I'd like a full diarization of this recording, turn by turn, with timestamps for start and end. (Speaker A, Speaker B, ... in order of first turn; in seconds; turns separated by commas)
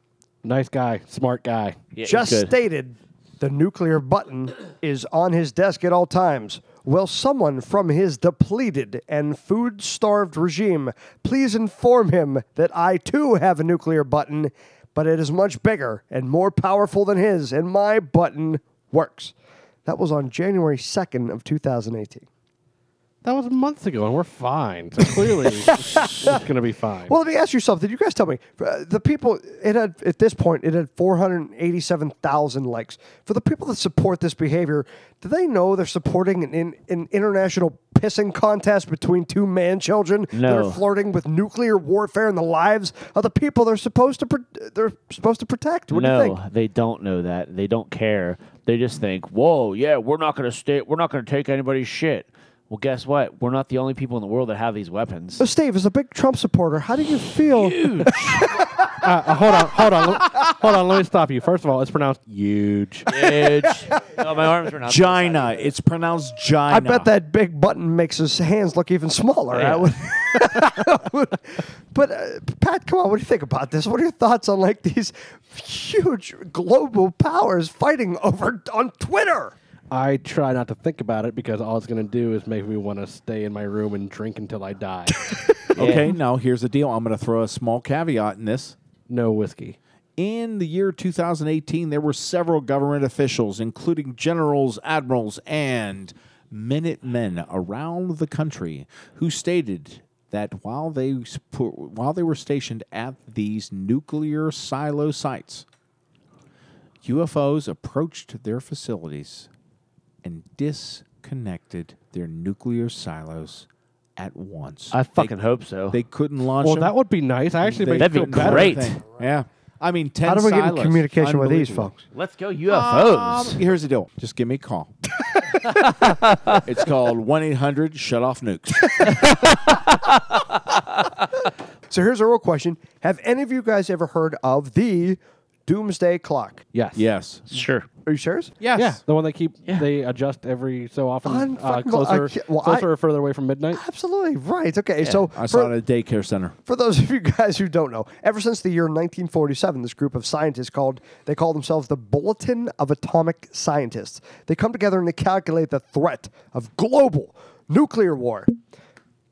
Speaker A: 0.4-1.8, Speaker B: 1.9-2.5, Speaker C: 2.0-19.3, Speaker C: 19.8-22.2, Speaker A: 23.2-27.1, Speaker C: 25.4-26.4, Speaker C: 27.1-46.4, Speaker B: 40.3-40.8, Speaker B: 45.9-55.5, Speaker C: 55.4-58.7, Speaker B: 57.5-58.5, Speaker A: 59.0-63.1, Speaker B: 63.1-65.7, Speaker C: 63.2-64.0, Speaker D: 64.8-67.1, Speaker C: 66.7-79.5, Speaker B: 69.5-69.9, Speaker A: 79.9-85.2, Speaker B: 85.7-86.1, Speaker D: 85.7-88.8, Speaker A: 89.1-89.8, Speaker D: 90.2-105.7, Speaker D: 107.0-109.5, Speaker D: 110.2-115.3, Speaker B: 114.9-116.0, Speaker D: 115.9-116.9, Speaker A: 116.6-118.8, Speaker D: 117.6-121.9, Speaker B: 118.0-119.0, Speaker C: 120.2-122.0, Speaker B: 122.1-123.6, Speaker D: 122.7-124.9, Speaker B: 125.6-126.6, Speaker D: 126.5-129.2, Speaker B: 129.0-131.1, Speaker C: 131.9-136.6, Speaker A: 136.7-137.0, Speaker D: 136.9-137.4, Speaker B: 137.5-137.9, Speaker C: 138.0-138.5, Speaker D: 138.6-139.0, Speaker A: 138.7-143.8, Speaker C: 141.2-142.9, Speaker C: 143.7-145.7, Speaker D: 145.3-146.6, Speaker C: 146.7-158.5